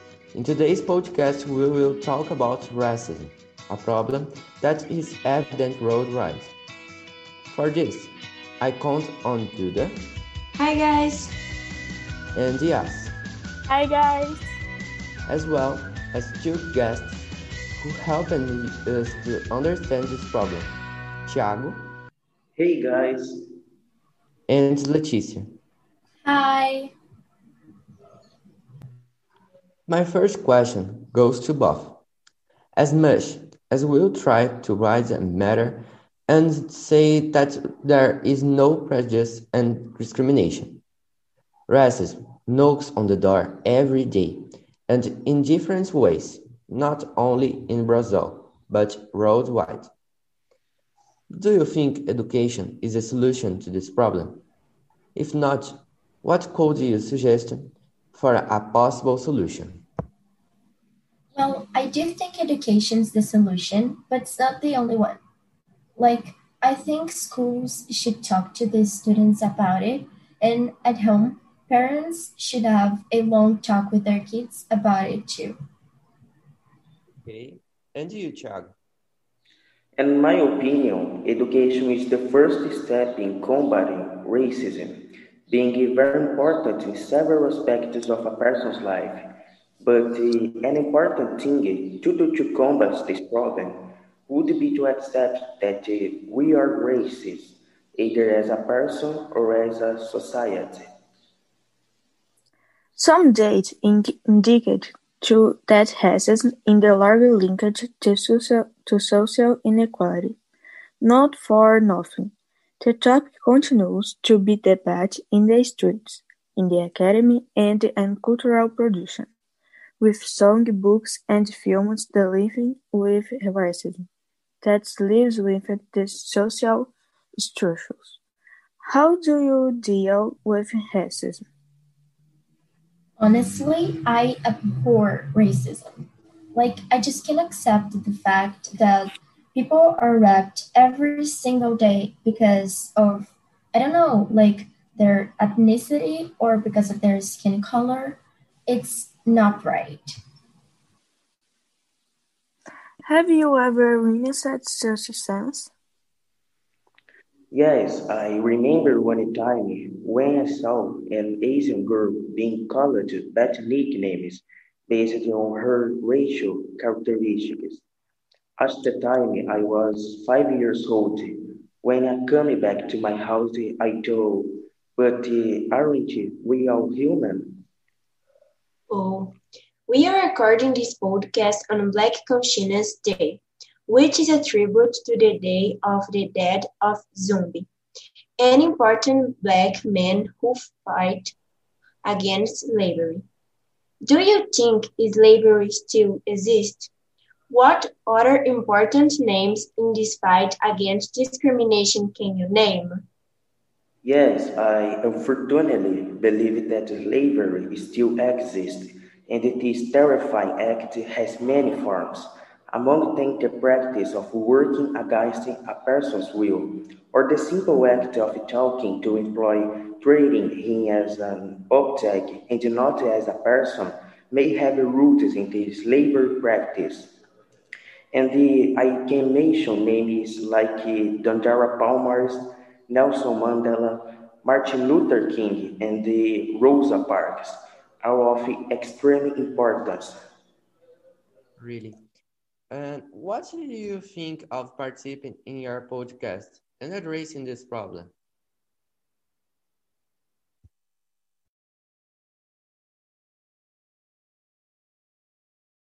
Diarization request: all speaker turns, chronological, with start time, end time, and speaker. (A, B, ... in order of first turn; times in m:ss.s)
0:00.3-0:06.5 A
0:07.5-0:10.0 A
0:10.6-0:11.3 B
0:12.3-0:13.1 A
0:13.7-0:14.6 C
0:15.3-0:17.3 A
0:17.8-0:21.9 A
0:22.6-0:23.4 D
0:24.5-0:25.5 A
0:26.2-0:26.9 E
0:29.9-0:32.0 A
0:32.8-0:40.8 A
0:41.7-0:49.9 A
0:51.3-0:54.4 A
0:55.2-0:59.8 A
1:01.4-1:05.2 E
1:06.0-1:15.6 E
1:17.2-1:18.7 A
1:20.0-1:29.2 D
1:29.8-1:40.8 D
1:43.0-1:50.4 C
1:51.0-1:59.3 C
2:00.0-2:04.1 C
2:04.6-2:08.2 C
2:08.8-2:11.5 C
2:13.2-2:30.2 E
2:33.0-2:35.7 C
2:37.5-2:47.8 D
2:48.6-2:57.6 D
2:58.9-2:59.4 B
2:59.9-3:07.7 B
3:08.4-3:11.4 B
3:12.0-3:13.2 B
3:14.0-3:16.9 B
3:17.5-3:23.0 B
3:24.0-3:47.1 D
3:48.1-4:00.2 D
4:01.6-4:02.0 A
4:02.7-4:08.1 A